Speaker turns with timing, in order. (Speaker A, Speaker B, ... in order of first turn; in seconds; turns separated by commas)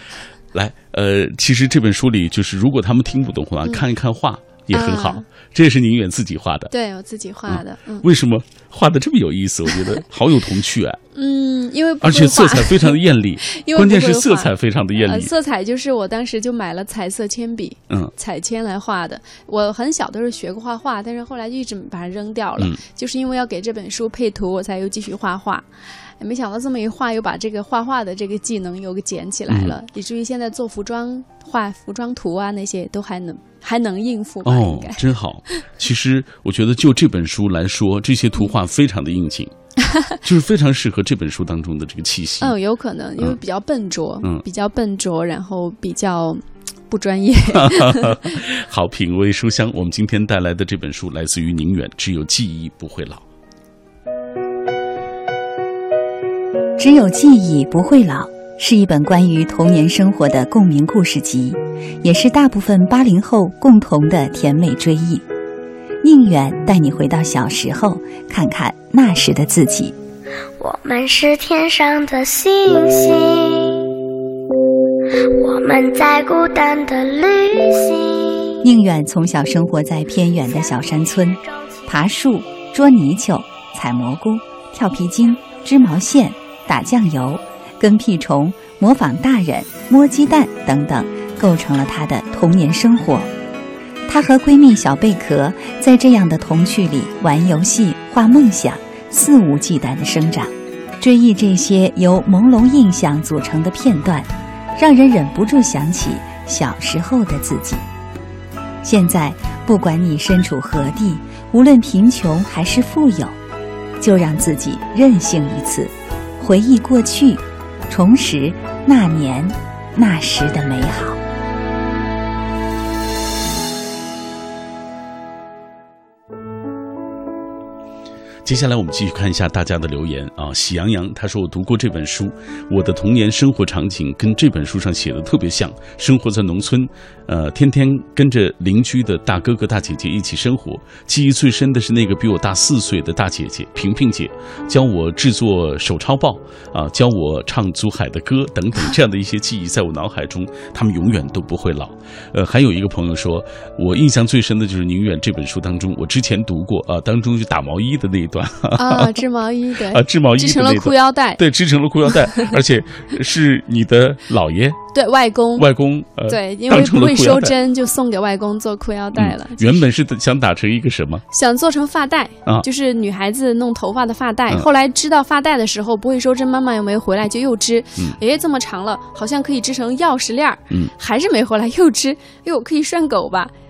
Speaker A: 0.5-6.7, Speaker B: 4.7-5.2, Speaker B: 6.7-8.1, Speaker A: 7.5-11.0, Speaker B: 11.1-25.6, Speaker A: 12.0-15.3, Speaker B: 26.2-35.6, Speaker A: 29.5-29.7, Speaker A: 34.4-39.5, Speaker A: 40.2-42.5, Speaker B: 42.4-48.3, Speaker A: 47.5-53.2, Speaker C: 56.8-65.2, Speaker C: 66.0-69.9, Speaker D: 70.6-73.9, Speaker D: 75.1-78.6, Speaker C: 78.6-93.3, Speaker D: 80.5-81.8, Speaker C: 94.1-107.8, Speaker C: 108.8-113.3, Speaker C: 114.0-121.2, Speaker A: 128.4-159.1, Speaker B: 158.7-161.4, Speaker A: 159.9-164.8, Speaker B: 162.1-162.5, Speaker B: 164.9-165.7, Speaker A: 165.6-167.5, Speaker B: 166.3-169.8, Speaker A: 169.1-171.2, Speaker B: 171.3-183.5